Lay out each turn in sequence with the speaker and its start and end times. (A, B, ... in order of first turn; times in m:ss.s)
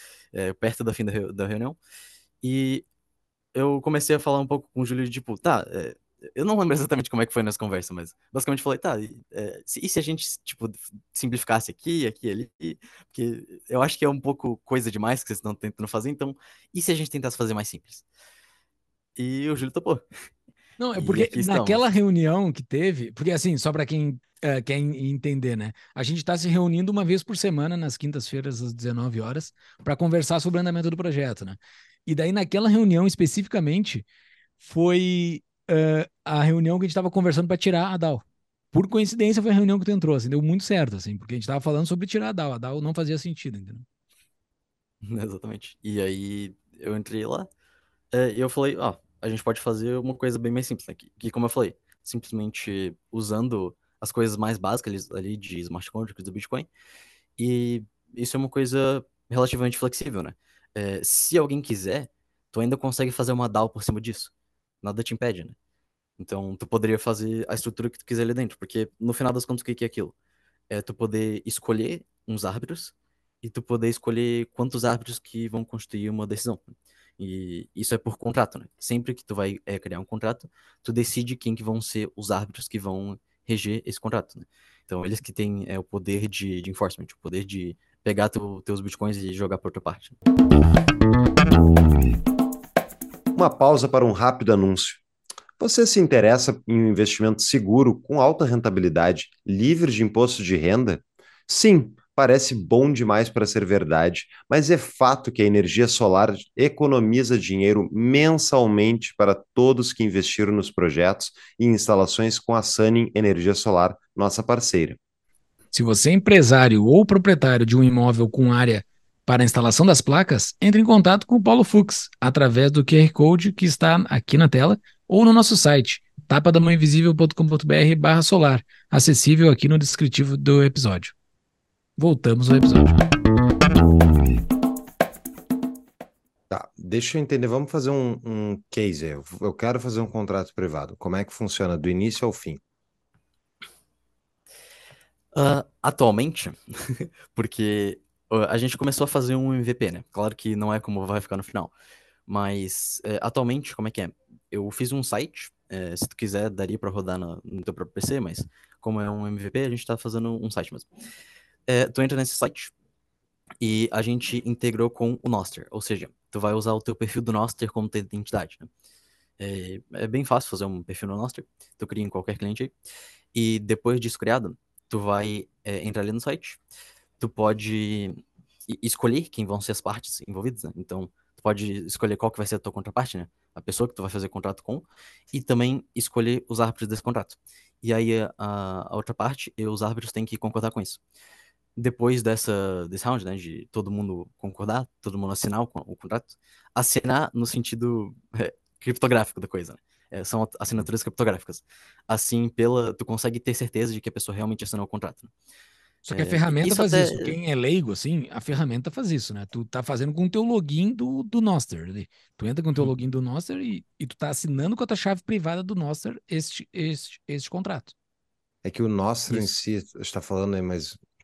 0:00.3-0:01.8 A
0:02.4-0:02.8 A
0:03.5-0:18.0 A
0:19.2-0:20.0 A
0:20.8-0:34.0 B
0:21.0-0:21.8 A
0:34.6-0:43.9 B
0:45.0-0:47.5 A
0:48.1-0:56.7 A
0:57.4-1:05.6 A
1:06.2-1:10.1 A
1:10.7-1:30.2 A
1:33.4-1:35.0 C
1:35.6-1:55.0 C
1:55.7-2:11.1 B
2:12.0-2:13.0 B
2:16.5-2:22.6 C
2:25.3-2:31.7 A
2:32.3-2:40.9 A
2:41.7-2:42.7 A
2:43.6-2:48.7 A
2:49.4-2:52.8 A
2:53.3-2:56.6 A
2:57.2-3:11.0 A
3:11.8-3:25.3 A
3:26.1-3:37.9 B
3:26.1-3:27.4 A
3:38.6-3:41.0 C